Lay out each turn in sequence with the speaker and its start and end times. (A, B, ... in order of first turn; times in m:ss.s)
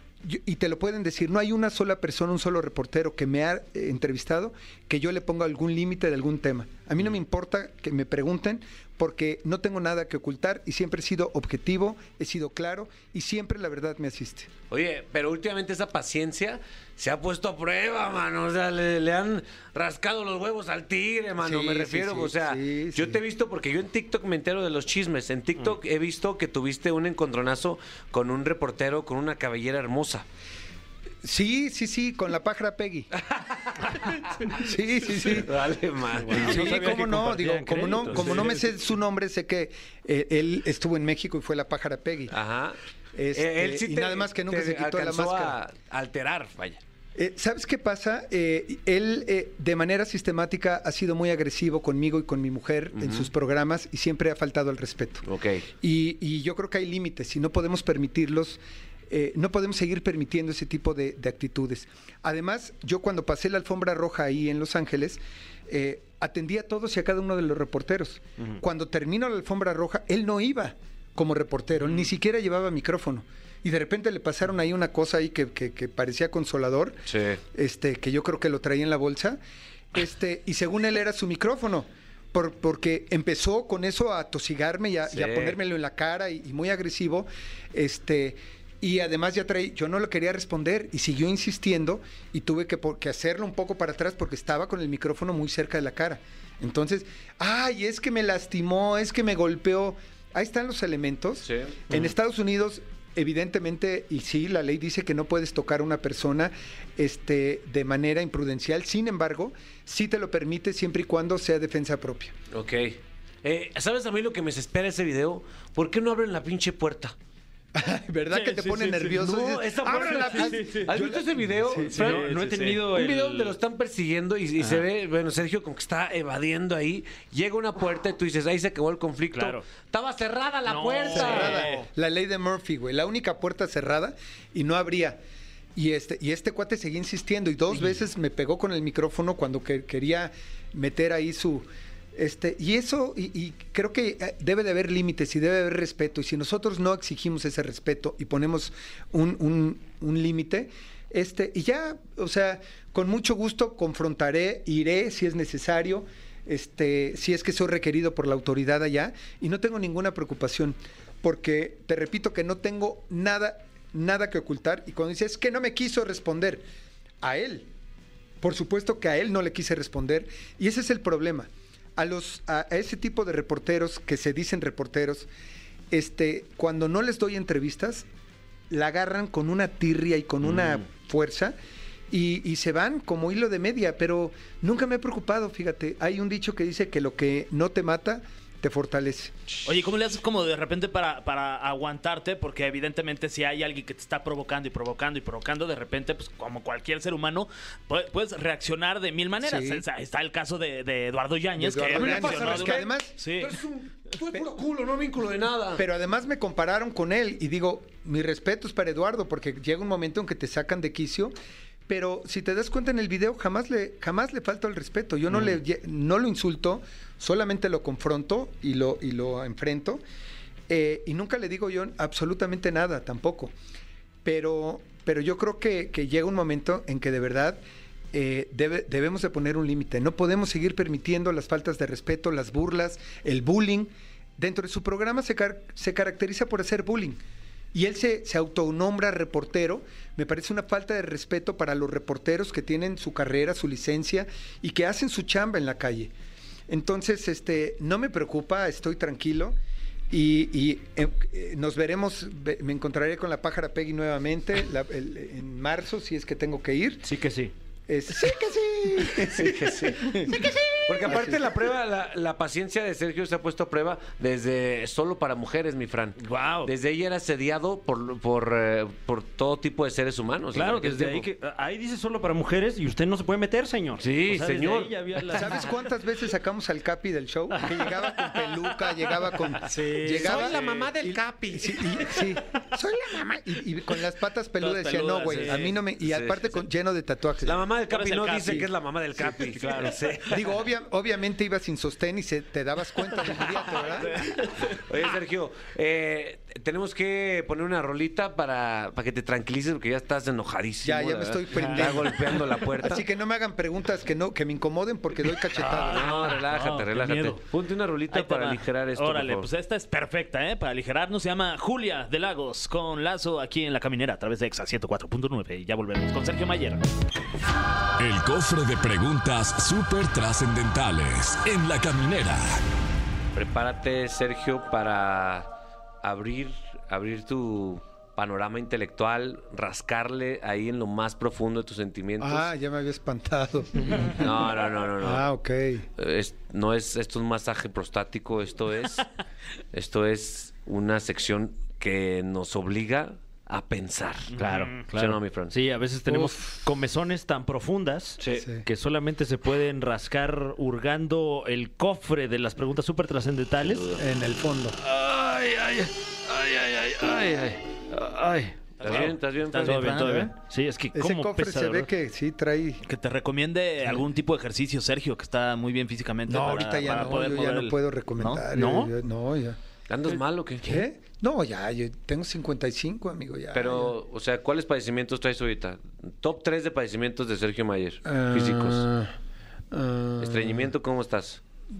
0:00.2-0:14.5 A
0:14.7-0:30.3 B
0:21.4-0:23.2 A
0:31.2-0:33.1 A
0:33.2-0:34.6 B
0:34.5-0:35.6 A
0:35.2-0:36.9 B
0:36.2-0:38.7 C
0:36.3-0:42.4 A
0:38.0-0:38.4 B
0:42.3-0:42.8 B
0:43.2-0:45.6 A
0:43.3-0:46.8 B
0:47.2-0:55.2 A
0:53.0-0:53.3 B
0:55.2-0:55.7 B
0:55.8-1:19.4 A
1:17.1-1:17.4 B
1:19.9-1:52.4 A
1:25.1-1:25.6 B
1:41.4-1:41.8 B
1:52.5-1:57.2 B
1:57.7-2:02.0 A
1:58.4-1:59.0 C
1:59.1-2:11.7 B
2:00.2-2:00.9 C
2:01.9-2:03.6 C
2:02.0-2:02.8 D
2:09.3-2:09.6 C
2:10.7-2:11.7 C
2:10.7-2:11.8 D
2:11.1-2:15.2 A
2:15.8-2:46.7 A
2:47.2-2:47.7 A
2:48.4-2:55.3 A
2:55.9-2:58.1 A
2:58.7-3:01.6 A
3:02.1-3:09.4 A
3:09.6-3:23.5 D
3:19.4-3:19.8 A
3:21.6-3:23.2 A
3:21.9-3:25.8 B
3:25.8-3:31.4 A
3:31.9-3:40.0 A
3:40.7-3:43.5 A
3:44.2-3:47.6 A
3:48.1-3:57.2 A
3:57.7-4:06.1 A
4:06.7-4:09.6 A
4:10.1-4:17.1 A
4:17.0-4:17.5 C
4:17.9-4:21.5 A
4:19.2-4:31.3 B
4:26.2-4:26.7 C
4:30.5-4:35.7 C
4:34.0-4:35.4 B
4:35.3-4:47.6 A
4:37.6-4:38.5 C
4:39.1-4:40.5 C
4:40.1-4:42.2 B
4:44.6-4:45.8 D
4:46.0-4:46.5 B
4:47.4-4:50.5 B
4:47.9-4:48.6 D
4:48.4-4:48.7 A
4:49.6-4:49.9 D
4:50.3-4:54.2 A
4:53.8-4:54.8 D
4:54.6-5:03.0 B
5:00.8-5:06.1 A
5:01.5-5:02.1 D
5:05.6-5:09.5 B
5:05.7-5:07.4 D
5:06.2-5:07.3 C
5:08.1-5:16.8 D
5:18.0-5:22.6 E
5:23.3-5:25.5 B
5:26.0-5:32.5 B
5:32.2-5:35.9 A
5:34.2-5:35.3 B
5:36.0-5:39.0 B
5:39.7-5:45.5 B
5:44.3-5:53.9 C
5:44.4-5:44.7 D
5:48.2-5:48.5 B
5:48.4-5:48.7 A
5:53.6-5:54.0 B
5:54.0-5:54.8 A
5:54.9-6:01.9 C
5:56.4-5:57.5 B
5:58.8-6:00.0 B
5:58.8-6:00.3 D
6:00.9-6:02.8 A
6:02.8-6:08.5 D
6:06.3-6:09.6 A
6:08.5-6:08.9 C
6:09.9-6:10.8 B
6:10.6-6:14.0 A
6:13.5-6:18.9 B
6:18.1-6:19.1 A
6:19.7-6:20.7 A
6:20.2-6:21.4 B